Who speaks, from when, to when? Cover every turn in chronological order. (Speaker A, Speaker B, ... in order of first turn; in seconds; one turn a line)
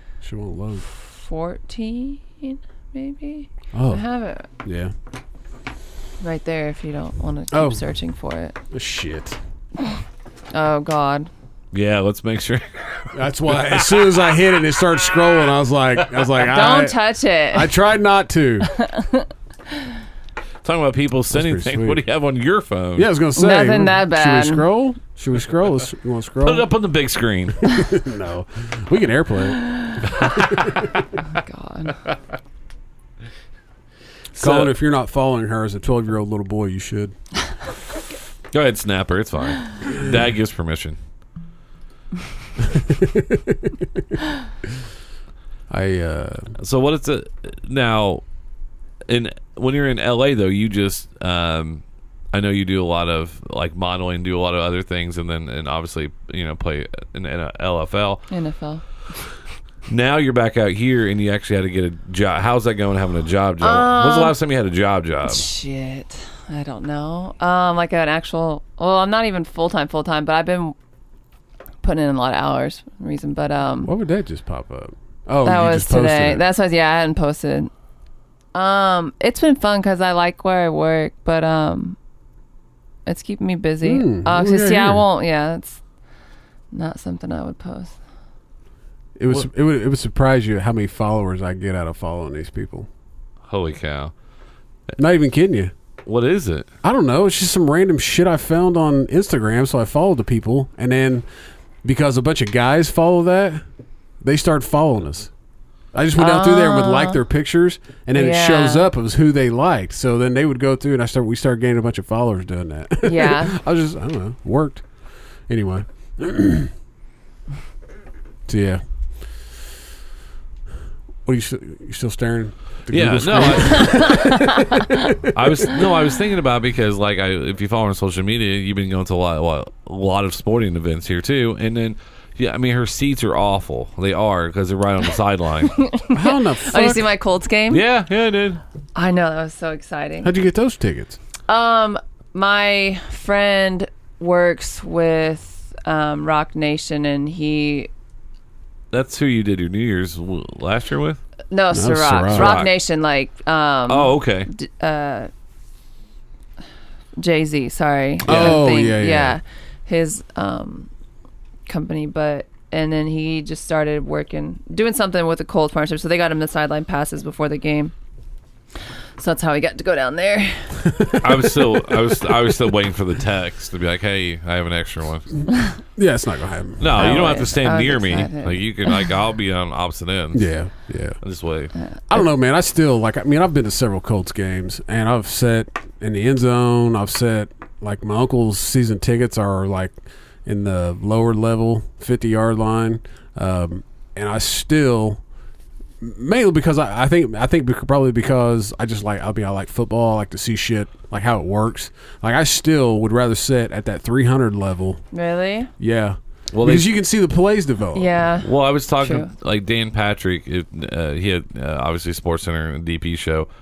Speaker A: 0.2-0.9
Speaker B: 0.9-4.5
Speaker A: 3.7-4.0
Speaker A: 4.6-4.9
Speaker B: 6.2-8.6
Speaker A: 7.5-7.8
Speaker A: 8.7-9.4
Speaker B: 10.5-11.3
Speaker C: 11.7-14.2
Speaker A: 13.1-16.9
Speaker B: 16.4-17.7
Speaker A: 17.5-18.7
Speaker B: 18.7-19.9
Speaker C: 20.6-23.1
Speaker A: 21.3-22.0
Speaker A: 22.9-26.7
Speaker B: 23.4-24.6
Speaker C: 26.4-27.7
Speaker A: 27.7-30.9
Speaker B: 29.6-30.0
Speaker C: 30.1-31.0
Speaker B: 31.3-32.0
Speaker C: 34.3-34.7
Speaker A: 34.4-37.1
Speaker C: 38.5-41.0
Speaker A: 42.7-43.7
Speaker A: 45.7-46.5
Speaker C: 46.6-48.2
Speaker C: 49.1-58.2
Speaker B: 58.3-58.8
Speaker C: 59.9-65.4
Speaker B: 63.6-64.3
Speaker B: 65.2-70.7
Speaker B: 71.8-73.9
Speaker A: 73.8-76.4
Speaker B: 75.4-77.7
Speaker B: 78.5-82.0
Speaker B: 83.1-85.8
Speaker A: 83.8-85.0
Speaker B: 86.7-88.0
Speaker A: 89.2-92.9
Speaker C: 93.5-94.1
Speaker A: 95.0-95.7
Speaker C: 96.1-96.7
Speaker A: 96.8-101.2
Speaker A: 101.8-103.6
Speaker A: 104.2-105.3
Speaker A: 105.9-114.8
Speaker B: 106.2-107.2
Speaker B: 108.1-108.8
Speaker B: 113.0-113.6
Speaker A: 115.5-116.7
Speaker A: 118.5-118.8
Speaker A: 121.2-125.4
Speaker C: 122.9-124.2
Speaker B: 123.7-125.1
Speaker C: 125.3-135.8
Speaker B: 135.7-137.8
Speaker A: 136.1-137.1
Speaker C: 137.7-138.6
Speaker B: 138.9-140.3
Speaker A: 140.2-141.2
Speaker B: 141.5-147.9
Speaker C: 148.9-151.2
Speaker B: 151.5-155.3
Speaker A: 151.7-152.6
Speaker C: 152.3-152.7
Speaker C: 153.9-154.5
Speaker B: 157.2-160.9
Speaker A: 158.2-159.4
Speaker C: 158.3-158.6
Speaker B: 161.7-167.9
Speaker B: 169.2-170.8
Speaker A: 170.8-172.0
Speaker C: 171.2-175.3
Speaker A: 175.9-177.2
Speaker C: 176.8-180.5
Speaker B: 176.9-179.1
Speaker A: 180.3-181.2
Speaker C: 181.2-181.7
Speaker B: 181.7-182.2
Speaker A: 182.1-195.2
Speaker A: 196.0-205.0
Speaker B: 205.1-205.7
Speaker A: 205.8-208.2
Speaker C: 206.5-206.9
Speaker B: 207.9-209.3
Speaker C: 208.4-213.5